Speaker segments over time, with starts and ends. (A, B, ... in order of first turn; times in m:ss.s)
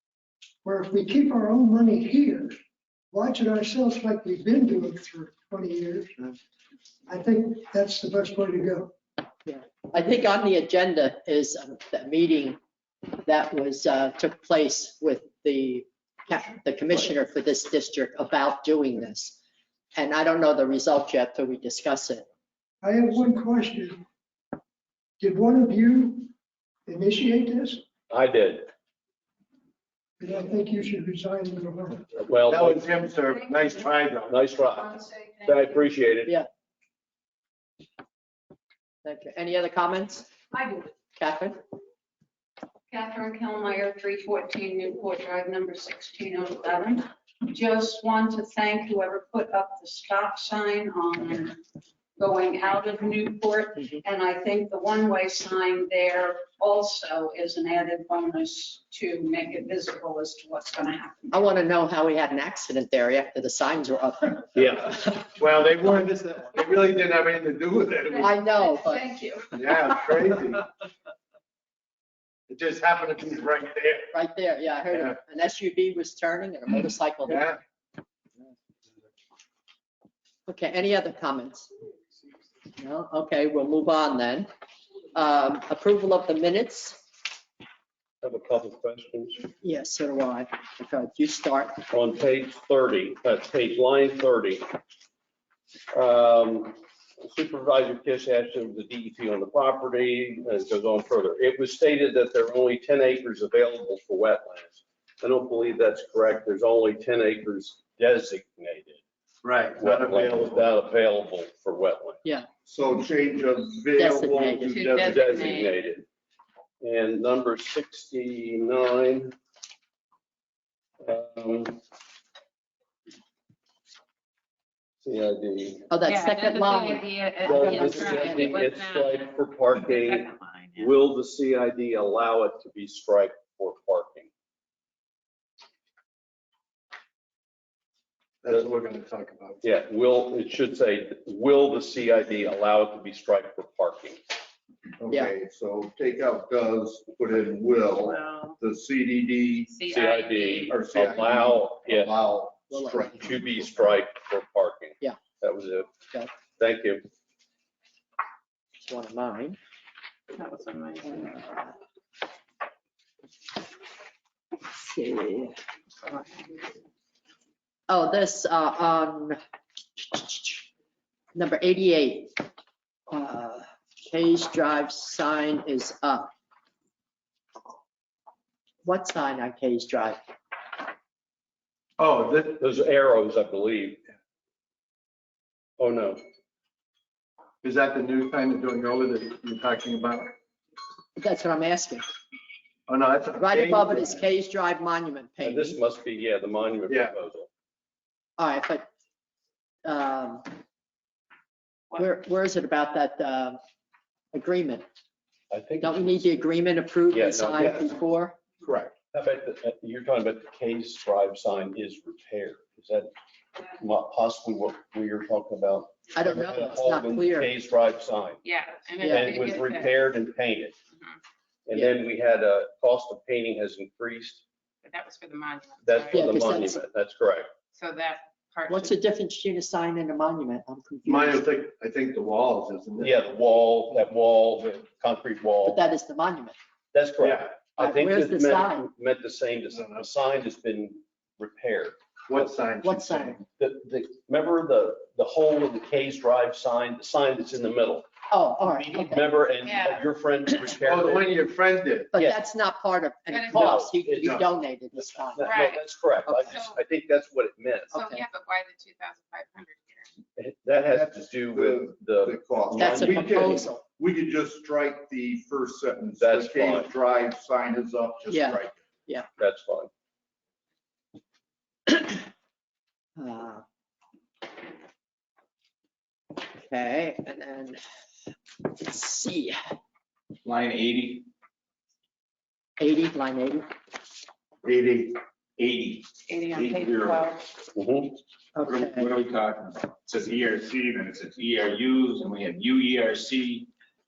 0:00.6-0:02.6 A
0:03.1-0:06.3 A
0:07.1-0:08.9 A
0:09.4-0:12.6 B
0:13.2-0:19.4 B
0:19.9-0:22.2 B
0:22.8-0:24.0 A
0:25.2-0:26.3 A
0:26.9-0:27.8 A
0:28.1-0:28.7 C
0:30.2-0:32.1 A
0:32.2-0:32.8 C
0:32.4-0:34.3 D
0:33.5-0:33.7 E
0:34.3-0:36.3 C
0:34.7-0:35.8 E
0:39.0-0:40.3 B
0:40.5-0:40.8 E
0:41.2-0:41.6 B
0:42.9-0:51.6 E
0:52.2-1:01.5 E
1:01.3-1:05.2 B
1:04.6-1:04.9 C
1:05.4-1:08.3 D
1:08.1-1:09.9 E
1:08.2-1:09.0 B
1:09.6-1:10.6 D
1:12.5-1:14.1 D
1:14.1-1:17.5 B
1:17.3-1:17.6 D
1:20.5-1:21.7 B
1:22.8-1:24.5 B
1:25.1-1:27.0 B
1:28.2-1:29.4 C
1:29.6-1:31.8 B
1:31.9-1:34.6 C
1:35.9-1:49.0 C
1:49.4-1:50.6 D
1:49.8-1:52.2 C
1:52.6-1:55.6 F
1:54.0-1:54.7 B
1:54.7-1:55.8 G
1:55.0-1:56.0 C
1:56.8-1:59.3 C
2:01.0-2:01.8 C
2:05.0-2:05.9 C
2:05.9-2:08.6 B
2:06.0-2:10.9 G
2:07.4-2:14.3 C
2:18.4-2:19.6 D
2:19.6-2:24.2 C
2:25.0-2:29.7 F
2:28.0-2:28.6 G
2:29.7-2:30.8 G
2:29.9-2:32.1 C
2:30.7-2:33.2 F
2:32.7-2:33.9 B
2:33.1-2:36.0 C
2:36.6-2:37.0 C
2:38.8-2:39.6 B
2:40.3-2:41.3 G
2:41.1-2:41.7 B
2:44.7-2:45.5 B
2:47.9-2:49.4 B
2:50.1-2:50.6 B
2:51.3-2:52.3 B
2:53.1-2:56.3 B
2:58.8-3:00.2 B
3:02.0-3:02.6 D
3:02.6-3:04.0 C
3:05.8-3:06.2 C
3:07.6-3:10.3 D
3:11.2-3:12.0 B
3:12.9-3:14.2 D
3:13.4-3:15.8 B
3:15.4-3:17.5 C
3:16.9-3:17.1 D
3:18.4-3:18.8 B
3:19.8-3:20.4 B
3:22.0-3:23.6 B
3:24.3-3:24.8 B
3:25.5-3:26.2 C
3:25.8-3:28.3 B
3:27.1-3:27.9 C
3:28.6-3:28.9 F
3:29.1-3:33.1 C
3:33.7-3:38.4 C
3:36.1-3:37.5 B
3:38.4-3:39.9 G
3:39.0-3:39.4 B
3:39.0-3:40.7 C
3:41.7-3:44.4 C
3:44.8-3:46.3 G
3:45.8-3:47.5 C
3:46.1-3:46.8 B
3:47.7-3:49.0 G
3:48.7-3:51.4 B
3:51.0-3:53.1 D
3:53.0-3:55.8 C
3:55.6-3:56.6 B
3:56.9-4:02.0 C
3:57.2-3:57.5 D
3:57.8-3:58.9 B
3:59.8-4:00.0 D
4:02.3-4:03.4 D
4:02.8-4:03.4 B
4:03.6-4:08.1 C
4:08.3-4:09.2 B
4:08.6-4:11.4 C
4:09.6-4:10.0 G
4:10.8-4:12.1 D
4:12.1-4:15.6 B
4:12.1-4:12.4 C
4:13.3-4:13.8 G
4:13.5-4:17.9 C
4:15.4-4:15.8 G
4:16.2-4:16.6 B
4:17.9-4:20.1 G
4:17.9-4:18.2 B
4:20.4-4:23.3 C
4:20.9-4:28.7 F
4:22.7-4:23.8 B
4:26.2-4:26.9 C
4:28.3-4:29.3 B
4:29.4-4:29.9 C
4:31.9-4:32.2 B
4:33.2-4:33.6 B
4:36.5-4:37.8 B
4:38.6-4:39.6 B
4:40.4-4:41.3 H
4:42.8-4:43.6 B
4:44.6-4:47.3 H
4:46.3-4:47.4 G
4:47.7-4:48.2 C
4:48.5-4:49.1 B
4:48.6-4:53.7 H